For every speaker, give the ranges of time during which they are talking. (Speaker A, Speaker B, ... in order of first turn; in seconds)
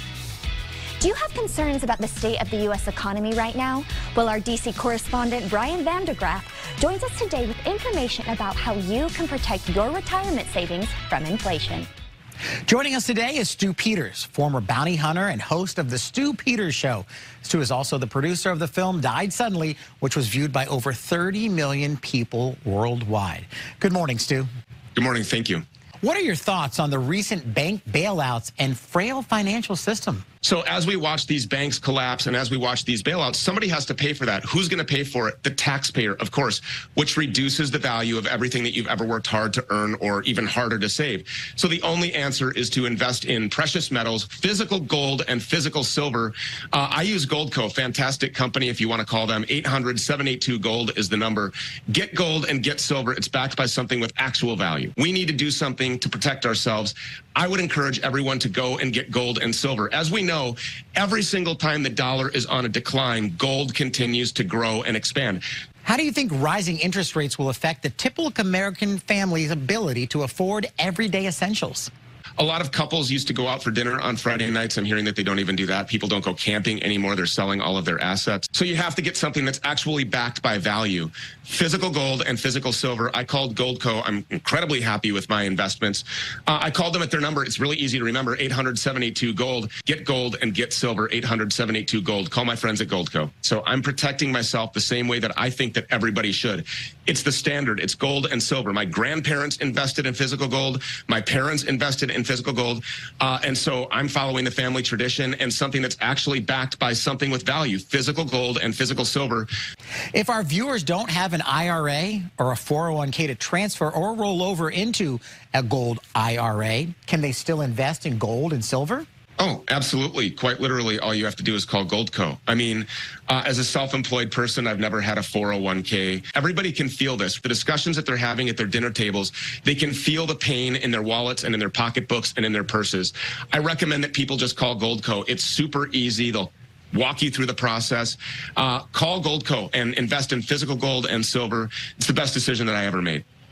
Speaker A: 1.0-11.9
Speaker B: 12.7-24.5, 26.0-30.2, 65.8-71.9, 110.1-119.0
Speaker C: 25.0-25.6, 30.4-65.4, 72.4-109.5, 119.4-143.2